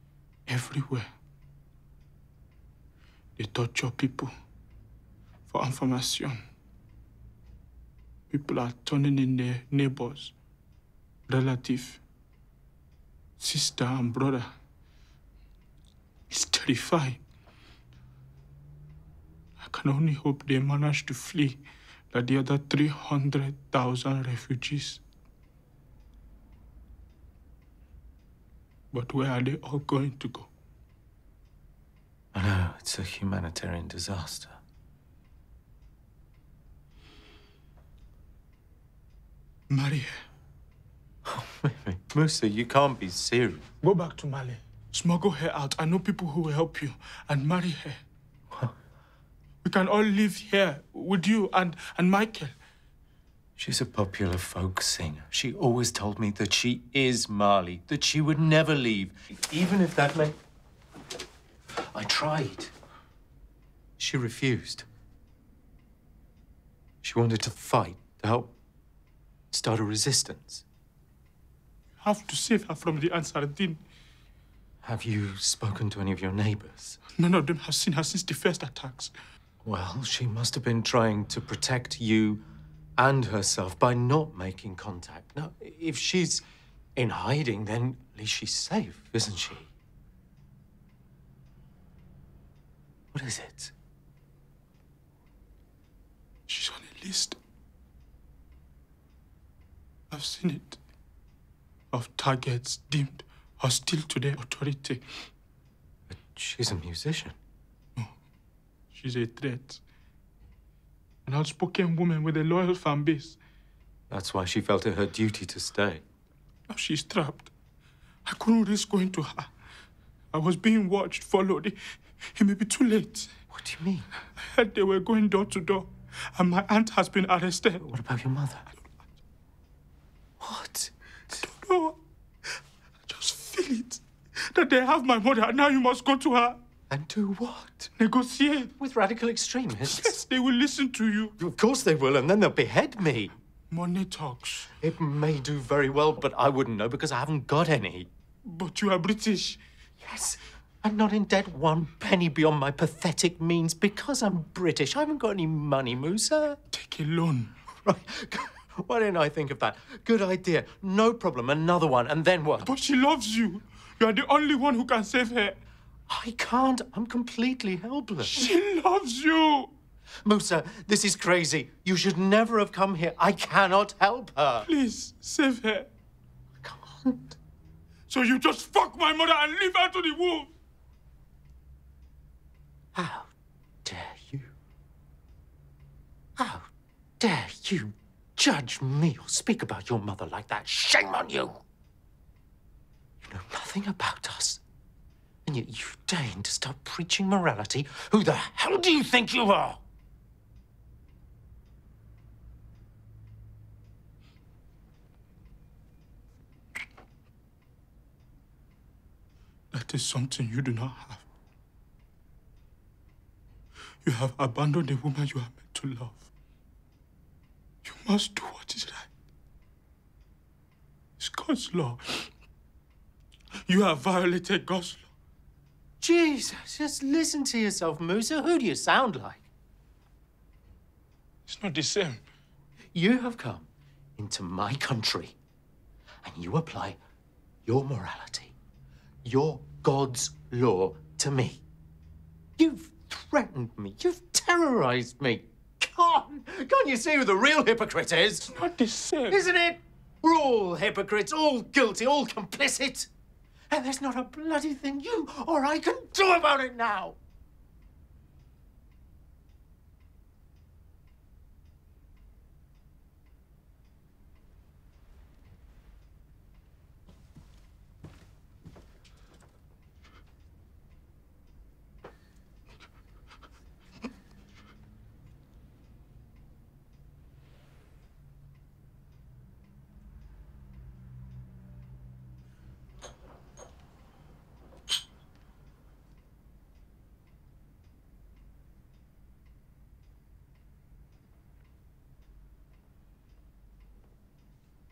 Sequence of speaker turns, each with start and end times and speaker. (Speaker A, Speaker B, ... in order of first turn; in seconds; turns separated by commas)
Speaker A: 0.5-1.1, Speaker A: 3.4-4.3, Speaker A: 5.5-6.4, Speaker A: 8.3-10.3, Speaker A: 11.3-12.0, Speaker A: 13.4-14.5, Speaker A: 16.3-17.2, Speaker A: 19.6-25.0, Speaker A: 28.9-30.5, Speaker B: 32.3-34.6, Speaker A: 39.7-40.2, Speaker B: 41.2-43.7, Speaker A: 43.8-48.0, Speaker A: 49.6-52.5, Speaker B: 53.6-60.4, Speaker B: 61.8-62.7, Speaker B: 64.0-64.9, Speaker B: 67.0-68.5, Speaker B: 69.5-70.6, Speaker A: 72.0-73.8, Speaker B: 74.8-77.0, Speaker A: 77.2-79.1, Speaker B: 79.6-82.4, Speaker B: 83.0-86.4, Speaker B: 87.0-89.7, Speaker B: 93.1-93.7, Speaker A: 96.5-97.4, Speaker A: 100.1-100.8, Speaker A: 101.9-105.1, Speaker B: 106.1-107.4, Speaker A: 108.9-109.8, Speaker A: 111.3-113.4, Speaker B: 114.1-116.0, Speaker A: 116.7-117.5, Speaker A: 118.2-119.5, Speaker A: 120.3-123.3, Speaker B: 123.5-124.1, Speaker A: 124.4-127.9, Speaker B: 127.8-128.7, Speaker B: 130.4-131.4, Speaker A: 131.4-132.0, Speaker A: 133.1-136.6, Speaker B: 136.9-137.9, Speaker A: 138.0-138.7, Speaker B: 138.8-140.2, Speaker A: 139.9-141.4, Speaker B: 141.4-143.3, Speaker A: 143.7-144.7, Speaker B: 144.8-148.1, Speaker A: 148.4-149.6, Speaker B: 150.0-156.6, Speaker A: 156.7-157.6, Speaker B: 157.8-162.8, Speaker A: 162.6-165.6, Speaker B: 166.1-168.5, Speaker A: 168.2-169.7, Speaker B: 170.2-174.7, Speaker A: 174.6-175.9, Speaker B: 176.6-177.4, Speaker A: 178.1-180.5, Speaker B: 182.9-183.3, Speaker B: 183.8-184.5, Speaker B: 186.4-191.6, Speaker B: 193.2-194.6, Speaker B: 195.5-199.8, Speaker A: 209.7-211.3, Speaker A: 214.0-216.3, Speaker A: 217.8-219.1, Speaker A: 221.2-222.3, Speaker A: 223.7-225.1, Speaker B: 226.0-229.4, Speaker A: 231.5-232.2, Speaker B: 232.9-235.4, Speaker B: 236.2-237.0, Speaker B: 237.7-238.6, Speaker B: 239.2-241.6, Speaker B: 242.6-248.5, Speaker A: 248.5-249.4, Speaker B: 249.3-253.1, Speaker B: 253.7-257.2